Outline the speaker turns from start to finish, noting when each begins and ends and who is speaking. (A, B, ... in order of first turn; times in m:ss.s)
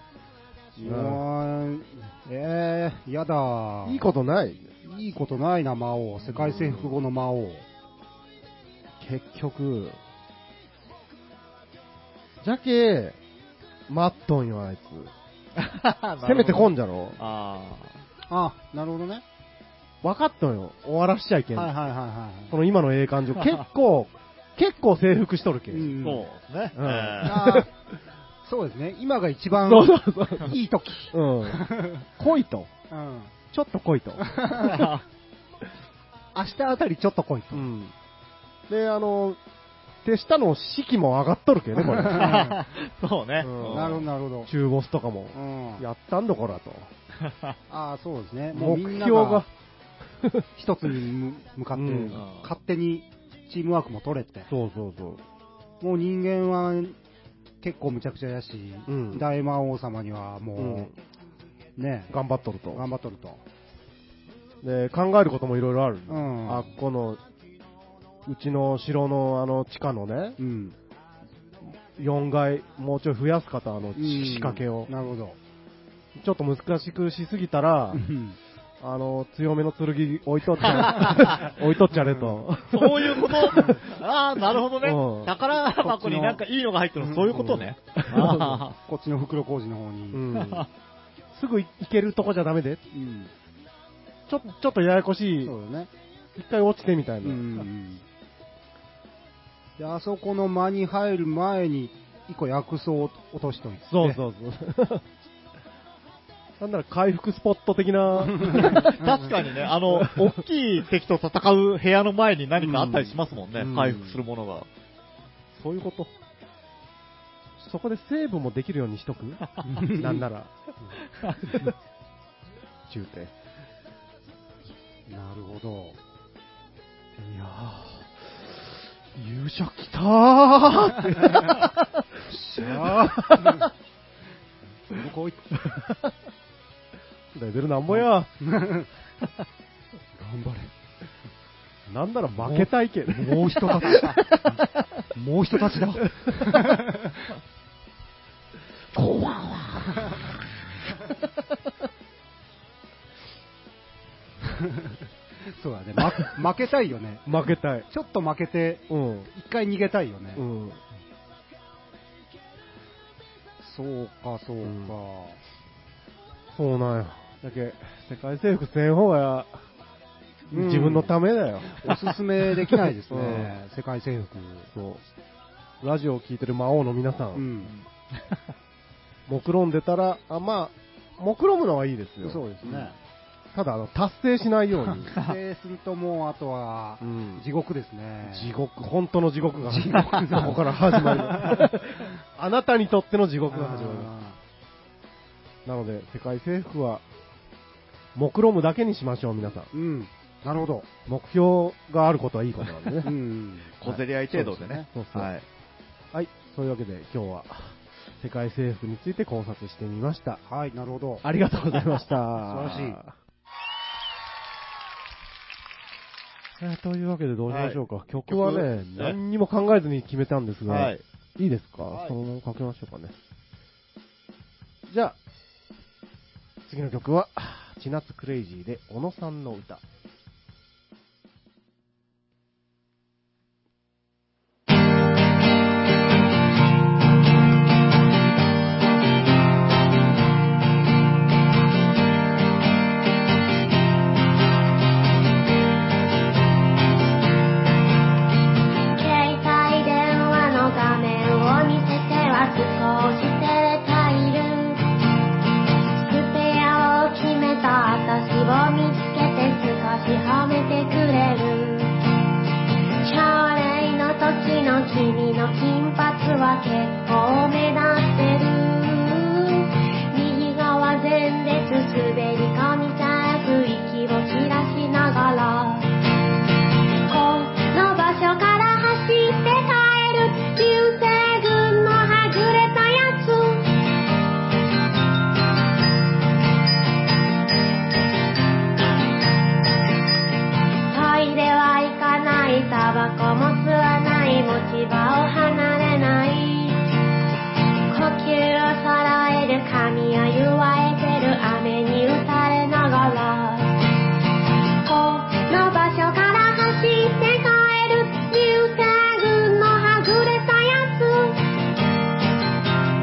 0:00.8-0:04.0 A
0:00.8-0:01.2 B
0:03.8-0:04.7 B
0:04.8-0:07.6 A
0:06.3-0:07.0 B
0:09.0-0:10.0 B
0:12.4-0:13.2 B
0:13.9-0:15.1 B
0:15.6-0:18.0 C
0:16.2-0:17.2 B
0:18.3-0:19.2 A
0:20.0-0:21.7 B
0:21.5-0:22.5 A
0:22.5-0:26.0 B
0:25.7-0:26.3 A
0:26.0-0:27.4 C
0:26.8-0:27.7 B
0:27.2-0:27.7 A
0:28.4-0:32.1 A
0:29.6-0:30.5 B
0:31.1-0:31.6 B
0:32.2-0:32.7 B
0:32.9-0:33.3 A
0:33.5-0:34.2 B
0:34.2-0:34.9 A
0:34.5-0:35.0 C
0:36.3-0:37.7 A
0:37.5-0:37.9 B
0:38.7-0:39.4 B
0:40.0-0:42.5 B
0:41.9-0:42.6 A
0:42.1-0:44.0 C
0:43.4-0:46.9 B
0:43.7-0:44.5 A
0:45.3-0:45.8 A
0:47.2-0:47.6 C
0:47.7-0:49.4 A
0:48.5-0:49.5 B
0:50.6-0:54.5 A
0:51.7-0:52.2 B
0:52.1-0:52.5 C
0:54.5-0:55.2 B
0:55.8-0:57.0 A
0:57.6-1:00.9 A
0:58.9-0:59.2 B
1:00.6-1:00.9 B
1:01.8-1:02.1 A
1:02.1-1:02.8 B
1:02.7-1:03.4 A
1:04.6-1:07.2 B
1:06.1-1:06.7 A
1:08.2-1:10.4 B
1:10.4-1:10.8 A
1:12.0-1:14.9 B
1:14.0-1:15.4 A
1:16.2-1:18.0 B
1:17.9-1:18.4 A
1:18.8-1:23.8 B
1:20.6-1:21.5 C
1:22.0-1:22.4 A
1:22.7-1:28.8 C
1:24.8-1:25.3 B
1:25.7-1:26.4 A
1:27.2-1:28.6 B
1:28.1-1:30.2 A
1:30.1-1:30.7 B
1:30.3-1:30.7 C
1:31.3-1:32.8 B
1:32.9-1:33.3 A
1:34.3-1:35.5 B
1:35.4-1:35.9 A
1:36.3-1:37.6 B
1:37.2-1:38.0 A
1:39.8-1:44.2 A
1:43.9-1:45.0 B
1:46.6-1:48.9 B
1:48.4-1:49.3 A
1:48.6-1:54.7 C
1:49.9-1:50.3 B
1:52.6-1:54.2 B
1:55.6-1:56.1 C
1:57.6-2:00.5 B
1:59.7-2:00.2 A
2:01.1-2:01.5 C
2:02.9-2:03.3 B
2:05.1-2:06.0 A
2:07.2-2:08.4 B
2:09.1-2:12.0 B
2:12.3-2:13.7 A
2:12.6-2:13.7 B
2:14.9-2:15.6 A
2:17.3-2:18.3 B
2:17.9-2:18.9 A
2:20.2-2:20.7 A
2:21.9-2:24.2 B
2:22.4-2:24.6 A
2:25.1-2:27.3 A
2:29.0-2:29.8 B
2:29.9-2:30.2 A
2:34.4-2:37.2 A
2:37.2-2:37.9 B
2:37.9-2:40.4 A
2:38.9-2:39.3 B
2:40.4-2:40.8 B
2:43.6-2:45.4 A
2:44.6-2:44.9 B
2:46.5-2:49.6 B
2:50.5-2:51.9 B
2:50.5-2:51.1 A
2:51.7-2:54.7 A
2:53.1-2:53.6 B
2:54.7-2:55.0 B
2:55.8-2:57.4 B
2:57.3-2:57.7 A
2:57.6-2:58.4 C
2:59.3-3:02.9 B
3:02.2-3:03.0 A
3:03.5-3:05.1 B
3:04.8-3:08.5 A
3:07.0-3:07.4 B
3:08.2-3:14.1 B
3:09.6-3:11.7 A
3:13.5-3:14.4 A
3:15.6-3:17.0 B
3:18.1-3:19.7 B
3:19.7-3:20.9 A
3:21.0-3:23.1 B
3:23.0-3:23.8 A
3:23.8-3:25.4 C
3:23.8-3:25.3 B
3:24.5-3:24.8 A
3:26.1-3:30.4 B
3:30.5-3:31.2 A
3:31.2-3:33.1 B
3:32.4-3:33.0 A
3:36.6-3:43.1 B
3:37.5-3:39.2 C
3:40.7-3:41.0 C
3:41.9-3:42.1 C
3:44.9-3:45.2 B
3:46.6-3:49.8 B
4:08.9-4:14.8 D
4:16.0-4:22.0 D
4:23.0-4:35.9 D
4:37.1-4:43.7 D
4:50.9-4:56.8 D
4:57.9-5:03.8 D
5:04.8-5:11.4 D